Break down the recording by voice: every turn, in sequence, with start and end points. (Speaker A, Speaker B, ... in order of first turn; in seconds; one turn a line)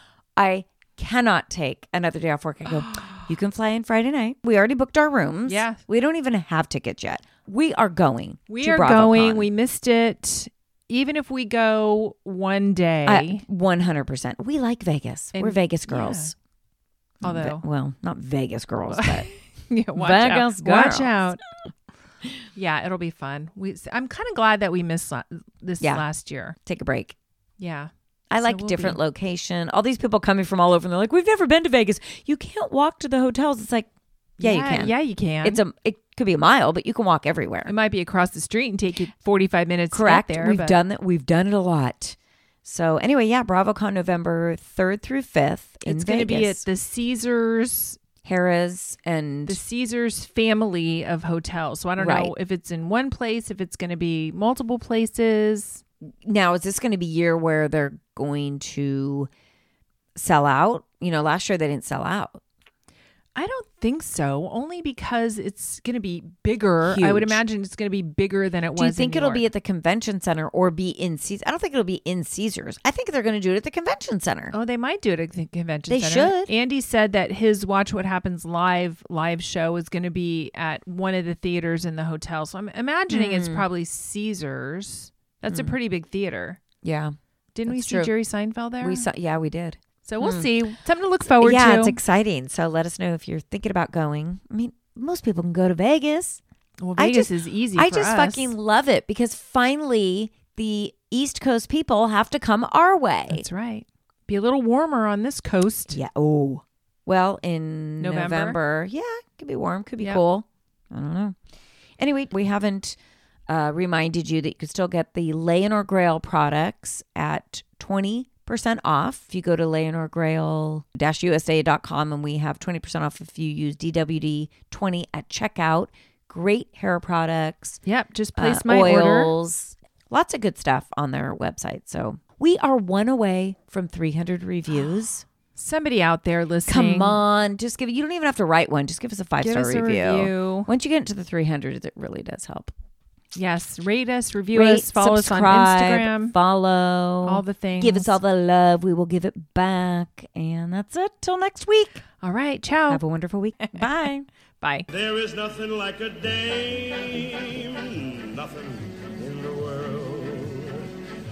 Speaker A: 0.4-9.5
Speaker B: 5.5-5.8
Speaker B: 8.5-13.4
Speaker A: 13.1-16.3
Speaker B: 15.3-16.3
Speaker A: 17.2-19.3
Speaker B: 17.2-17.6
Speaker B: 18.9-21.4
Speaker A: 19.9-21.2
Speaker B: 22.6-26.6
Speaker A: 26.6-27.2
Speaker B: 27.6-29.0
Speaker A: 28.3-33.9
Speaker B: 34.4-35.6
Speaker A: 34.4-37.7
Speaker B: 37.6-40.8
Speaker A: 39.9-46.6
Speaker B: 45.9-48.0
Speaker A: 48.2-49.6
Speaker B: 49.5-55.8
Speaker A: 52.0-52.3
Speaker A: 56.2-59.3
Speaker A: 60.2-62.4
Speaker B: 63.4-69.5
Speaker A: 66.8-67.4
Speaker A: 68.8-74.5
Speaker B: 74.5-86.6
Speaker A: 75.9-76.5
Speaker A: 83.1-83.7
Speaker A: 85.5-85.8
Speaker A: 86.8-87.2
Speaker B: 87.5-89.1
Speaker A: 87.7-88.1
Speaker A: 88.8-90.5
Speaker B: 90.0-92.0
Speaker A: 91.4-96.4
Speaker B: 96.8-98.5
Speaker A: 97.0-103.5
Speaker B: 103.3-106.0
Speaker A: 105.9-111.4
Speaker B: 108.0-108.6
Speaker A: 112.0-113.0
Speaker A: 113.5-127.8
Speaker B: 127.8-129.3
Speaker A: 128.4-135.3
Speaker B: 135.6-137.2
Speaker A: 136.7-142.7
Speaker B: 139.4-140.7
Speaker B: 143.3-146.3
Speaker A: 144.5-152.0
Speaker B: 147.2-148.2
Speaker B: 152.2-153.0
Speaker A: 152.9-154.3
Speaker B: 154.6-154.9
Speaker C: 154.9-160.9